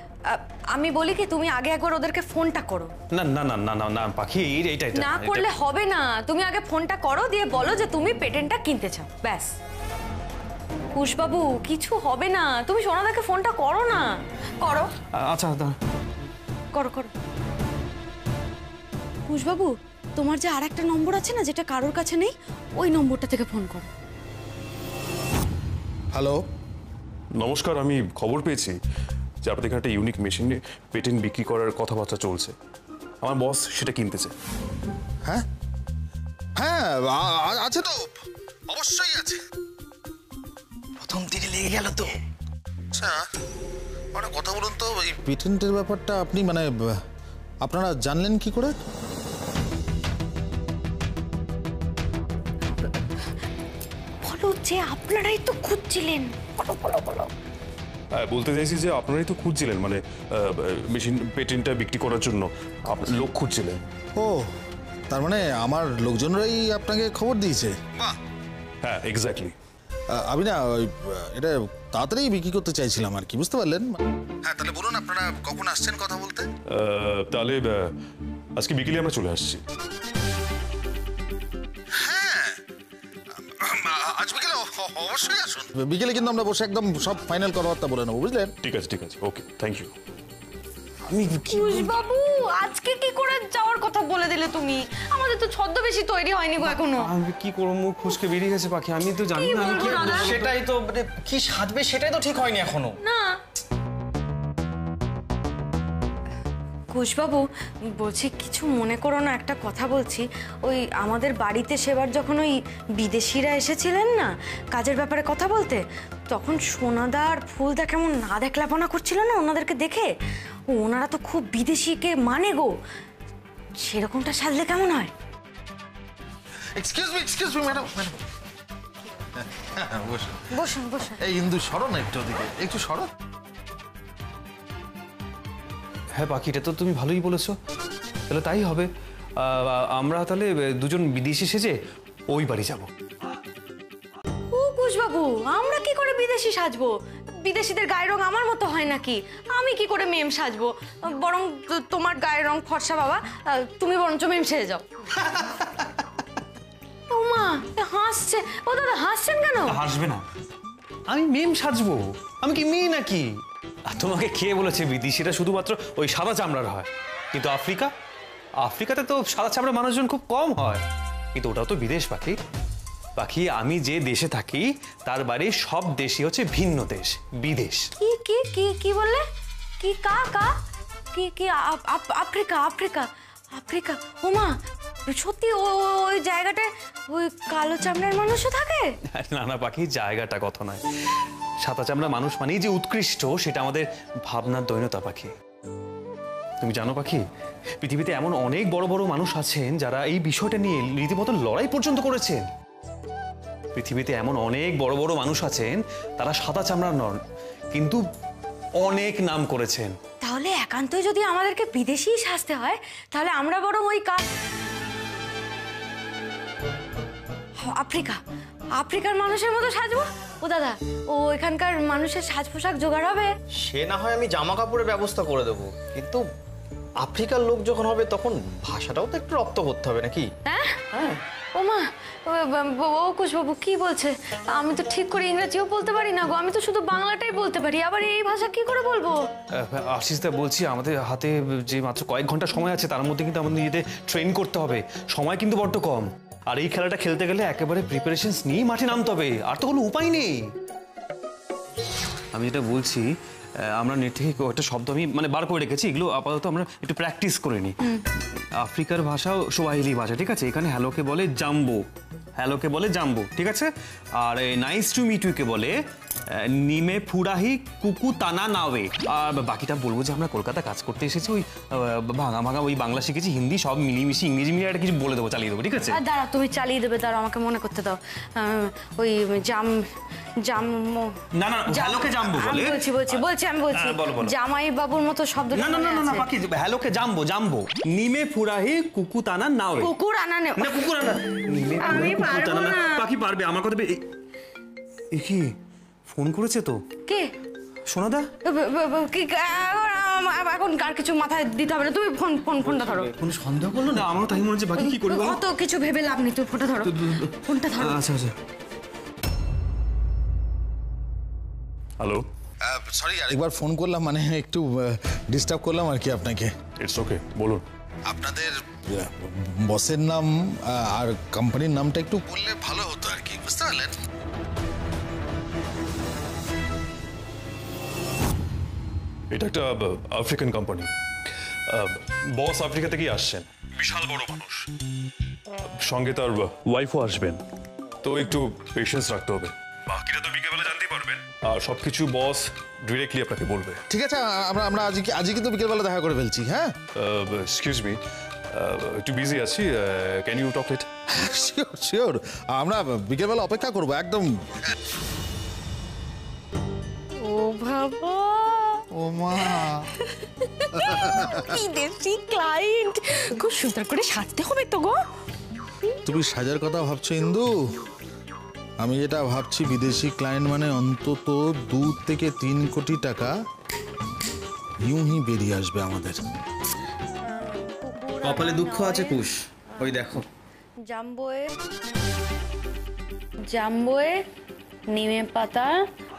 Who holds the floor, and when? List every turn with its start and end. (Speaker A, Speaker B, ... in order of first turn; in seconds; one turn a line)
Speaker A: 0.3-2.9
Speaker B: 3.1-5.5
Speaker A: 4.9-9.5
Speaker A: 10.9-14.9
Speaker B: 15.1-15.8
Speaker A: 16.7-17.1
Speaker A: 19.3-23.9
Speaker C: 26.1-26.4
Speaker D: 27.4-28.8
Speaker D: 29.4-32.5
Speaker D: 33.2-34.3
Speaker C: 36.6-38.1
Speaker C: 38.7-39.4
Speaker C: 42.9-43.2
Speaker C: 44.1-47.0
Speaker C: 47.6-48.8
Speaker A: 54.2-56.4
Speaker D: 58.1-63.8
Speaker C: 64.2-64.5
Speaker C: 65.1-68.1
Speaker D: 68.8-69.5
Speaker C: 70.1-76.5
Speaker D: 76.7-77.9
Speaker D: 78.6-79.6
Speaker C: 82.0-82.6
Speaker C: 83.4-88.5
Speaker D: 88.6-89.9
Speaker B: 91.1-91.9
Speaker A: 91.5-97.1
Speaker B: 96.7-100.5
Speaker A: 99.3-100.3
Speaker E: 99.8-103.0
Speaker A: 103.0-103.4
Speaker A: 106.9-115.8
Speaker A: 116.3-120.1
Speaker A: 120.7-122.7
Speaker A: 123.8-125.1
Speaker C: 126.8-128.2
Speaker C: 129.4-130.4
Speaker A: 130.5-131.2
Speaker C: 131.2-133.1
Speaker B: 136.1-137.6
Speaker B: 138.3-141.8
Speaker B: 142.3-142.9
Speaker A: 144.5-154.8
Speaker A: 157.1-159.8
Speaker B: 159.7-160.2
Speaker B: 161.1-163.3
Speaker B: 163.9-167.9
Speaker B: 168.6-170.8
Speaker B: 171.3-172.4
Speaker B: 173.2-177.9
Speaker A: 178.0-179.2
Speaker A: 179.8-180.5
Speaker A: 181.1-188.9
Speaker B: 189.1-190.8
Speaker B: 191.6-195.3
Speaker B: 196.6-197.2
Speaker B: 197.8-202.4
Speaker B: 203.7-207.2
Speaker B: 207.7-208.0
Speaker B: 208.8-209.9
Speaker A: 210.2-214.2
Speaker A: 217.6-218.2
Speaker A: 218.8-223.3
Speaker E: 223.6-226.2
Speaker E: 227.0-230.3
Speaker A: 230.4-230.8
Speaker E: 230.9-231.2
Speaker A: 231.5-239.3
Speaker B: 239.5-250.4
Speaker B: 252.3-253.1
Speaker B: 253.6-257.8
Speaker B: 258.6-261.8
Speaker B: 262.4-276.0
Speaker A: 275.9-279.9
Speaker A: 280.4-286.3
Speaker B: 281.3-284.3
Speaker B: 285.5-289.9
Speaker A: 289.8-290.9
Speaker B: 290.6-294.0
Speaker A: 291.8-293.1
Speaker B: 295.1-295.5
Speaker B: 296.1-296.8
Speaker B: 297.9-298.3
Speaker A: 298.4-303.1
Speaker E: 302.6-303.1
Speaker B: 303.2-305.4
Speaker A: 304.8-308.0
Speaker B: 306.8-308.4
Speaker D: 312.0-312.2
Speaker C: 312.6-316.5
Speaker D: 316.8-317.6
Speaker C: 318.1-323.9
Speaker D: 329.3-330.9
Speaker D: 331.7-334.7
Speaker D: 335.8-337.4
Speaker D: 338.0-339.5
Speaker B: 339.9-341.2
Speaker D: 341.2-343.8
Speaker C: 343.9-346.7
Speaker D: 346.9-348.0
Speaker D: 348.5-350.9
Speaker C: 351.1-354.6
Speaker A: 357.1-358.8
Speaker C: 358.9-359.9
Speaker A: 359.6-365.0
Speaker C: 360.7-361.4
Speaker C: 366.0-367.8
Speaker C: 368.8-373.3
Speaker C: 374.8-376.2
Speaker A: 377.2-379.2
Speaker E: 378.2-380.2
Speaker A: 380.8-381.5
Speaker A: 383.5-384.2
Speaker A: 384.9-385.8